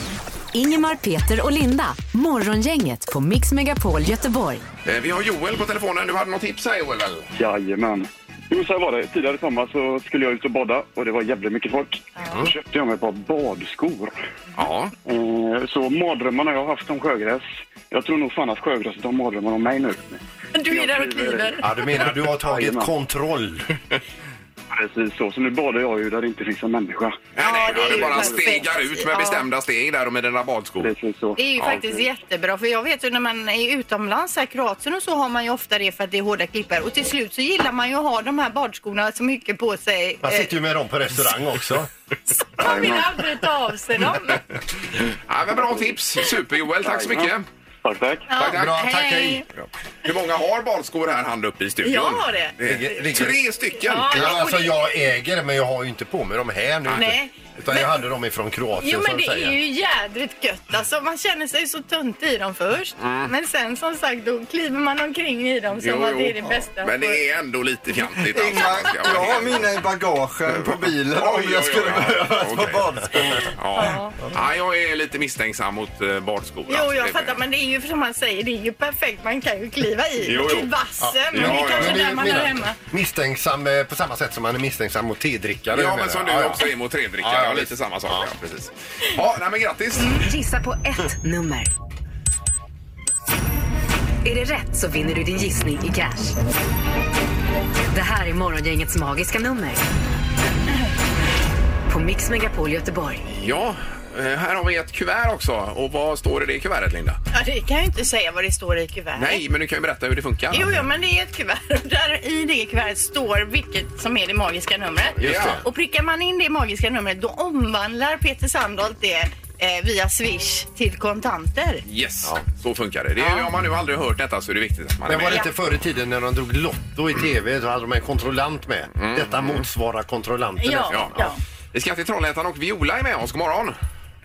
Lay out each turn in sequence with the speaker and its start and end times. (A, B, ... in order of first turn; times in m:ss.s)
0:00.5-0:04.6 A
0:04.8-0:07.3 B
0:07.4-0:14.2 C
0:12.2-0:12.5 D
0:14.6-0:14.9 B
0:15.0-0:22.9 C
0:20.5-0:21.7 D
0:21.6-0:23.7 E
0:24.7-0:28.3 C
0:27.4-0:30.9 B
0:27.4-0:29.4 D
0:30.8-0:32.1 C
0:31.4-0:40.5 D
0:40.2-0:41.9 E
0:42.4-0:44.4 D
0:42.6-0:43.0 C
0:45.1-0:47.4 B
0:46.9-0:47.3 C
0:47.8-0:48.3 C
0:48.3-0:49.5 D
0:48.4-0:48.8 B
0:48.4-0:49.5 E
0:50.0-0:54.4 B
0:51.8-0:52.5 D
0:52.6-0:53.4 E
0:53.8-0:54.8 D
0:54.1-0:59.6 E
0:56.9-0:58.0 D
0:58.8-1:07.2 D
1:03.0-1:03.3 B
1:05.8-1:09.7 B
1:08.3-1:13.0 F
1:11.1-1:17.4 B
1:11.9-1:13.4 E
1:13.8-1:14.1 D
1:16.7-1:22.8 D
1:20.2-1:20.7 B
1:21.0-1:26.7 E
1:21.3-1:22.2 B
1:25.7-1:30.2 B
1:27.2-1:28.3 E
1:30.0-1:30.2 D
1:30.2-1:31.7 A
1:34.2-1:36.4 A
1:37.9-1:39.8 A
1:41.9-1:43.2 A
1:43.3-1:47.2 B
1:47.3-1:49.4 D
1:49.2-1:50.8 B
1:50.5-2:01.8 D
1:55.2-1:55.6 B
1:55.2-1:55.6 E
2:01.8-2:05.5 B
2:03.2-2:03.5 D
2:05.1-2:11.3 E
2:09.0-2:09.6 B
2:10.6-2:11.4 D
2:10.9-2:13.8 B